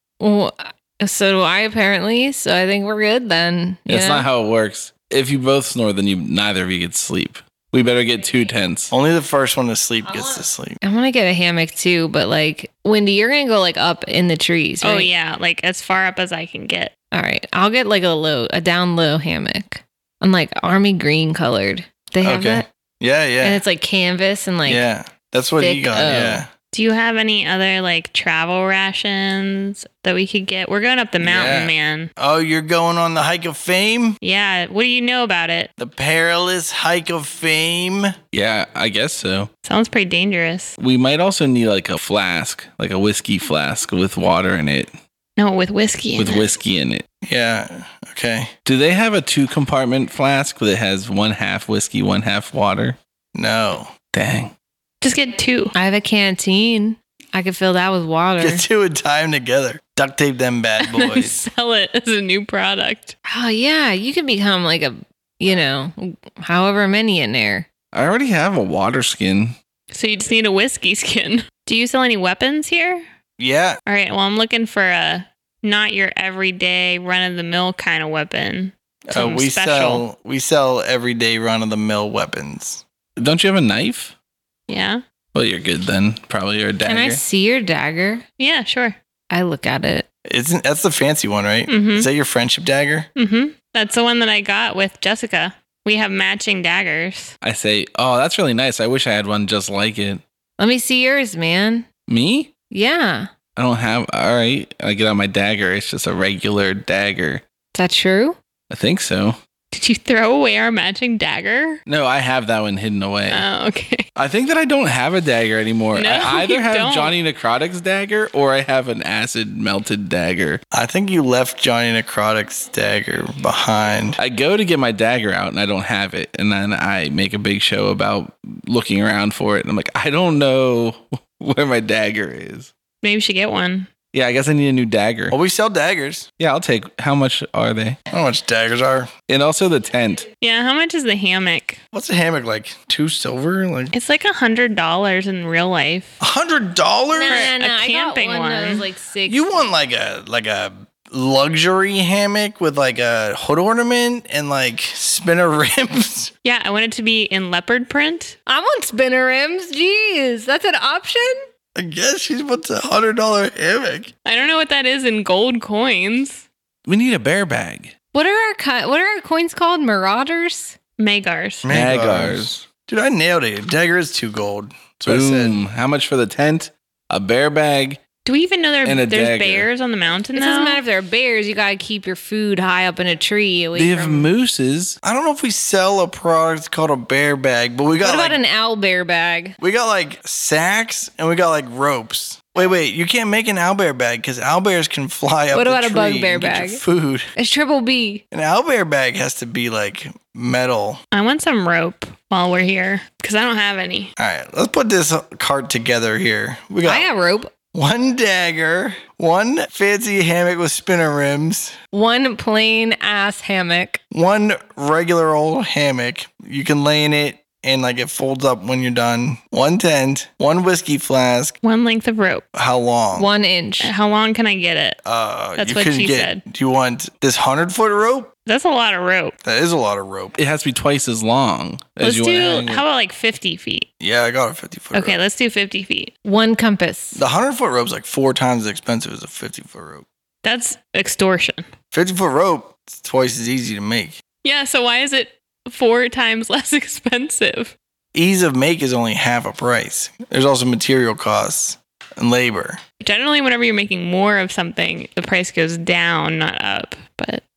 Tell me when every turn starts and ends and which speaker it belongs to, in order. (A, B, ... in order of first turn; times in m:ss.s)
0:00.2-0:04.3 A
0:03.9-0:08.9 B
0:08.9-0:10.8 C
0:10.8-0:15.1 A
0:14.8-0:16.9 D
0:17.1-0:22.6 A
0:22.2-0:23.6 C
0:23.4-0:24.8 A
0:24.6-0:26.5 C
0:25.6-0:26.4 A
0:26.7-0:32.1 D
0:31.2-0:34.2 C
0:34.2-0:35.7 D
0:35.8-0:38.2 C
0:38.3-0:39.5 B
0:39.6-0:40.8 D
0:40.8-0:44.9 B
0:45.4-0:46.4 D
0:46.2-0:47.0 B
0:47.2-0:48.5 C
0:48.6-0:53.0 B
0:53.3-0:53.9 C
0:54.1-0:54.5 B
0:55.0-0:55.7 D
0:55.7-0:58.6 A
0:58.4-1:01.4 C
1:00.8-1:03.1 D
1:03.2-1:07.6 A
1:07.9-1:09.6 B
1:09.9-1:13.0 D
1:13.4-1:13.8 C
1:13.8-1:20.0 D
1:19.1-1:22.8 C
1:23.2-1:24.1 B
1:24.7-1:25.0 D
1:25.3-1:27.2 B
1:26.8-1:28.2 A
1:28.4-1:29.0 D
1:29.3-1:30.0 A
1:30.3-1:33.1 C
1:31.7-1:32.1 D
1:33.2-1:37.3 D
1:37.4-1:40.2 B
1:40.6-1:41.8 A
1:42.1-1:42.5 B
1:42.7-1:43.3 A
1:43.6-1:47.4 B
1:47.7-1:48.4 A
1:48.7-1:49.4 B
1:49.7-1:51.8 D
1:51.9-1:53.5 B
1:53.3-1:54.0 D
1:54.2-2:00.6 B
1:55.9-1:57.1 D
2:00.7-2:04.2 C
2:04.2-2:12.7 B
2:13.0-2:13.9 D
2:14.1-2:15.4 B
2:15.3-2:16.3 C
2:16.4-2:18.0 B
2:18.1-2:19.1 C
2:19.3-2:20.2 B
2:20.4-2:21.8 D
2:21.9-2:23.9 C
2:23.9-2:26.2 D
2:26.2-2:27.5 C
2:27.1-2:29.7 A
2:27.3-2:28.8 D
2:29.3-2:36.3 C
2:36.4-2:38.4 D
2:38.5-2:41.4 A
2:41.7-2:44.1 C
2:44.2-2:46.4 D
2:46.9-2:47.9 B
2:48.1-2:50.8 A
2:51.0-2:51.6 D
2:51.6-2:55.6 C
2:51.6-2:52.6 B
2:55.0-2:58.0 B
2:58.2-3:00.8 D
2:58.8-2:59.7 B
3:00.3-3:04.3 A
3:03.7-3:05.0 B
3:05.0-3:08.4 C
3:08.0-3:09.6 A
3:09.6-3:17.3 C
3:15.5-3:16.8 A
3:17.4-3:18.2 A
3:18.3-3:21.0 C
3:21.1-3:24.1 D
3:24.2-3:27.1 C
3:26.8-3:27.5 A
3:27.7-3:31.8 C
3:31.9-3:34.0 A
3:34.1-3:41.6 C
3:41.6-3:42.4 D
3:42.5-3:43.3 C
3:43.2-3:43.9 A
3:43.8-3:45.0 D
3:45.0-3:48.3 C
3:45.6-3:46.4 D
3:48.4-3:49.4 D
3:49.4-3:50.4 C
3:50.4-3:52.8 B
3:52.0-3:53.9 D
3:54.0-3:55.2 C
3:54.9-3:56.1 D
3:56.2-3:57.2 A
3:57.1-4:00.0 C
4:00.4-4:01.6 D
4:01.9-4:04.2 C
4:04.4-4:07.7 D
4:08.1-4:12.8 C
4:13.0-4:17.4 D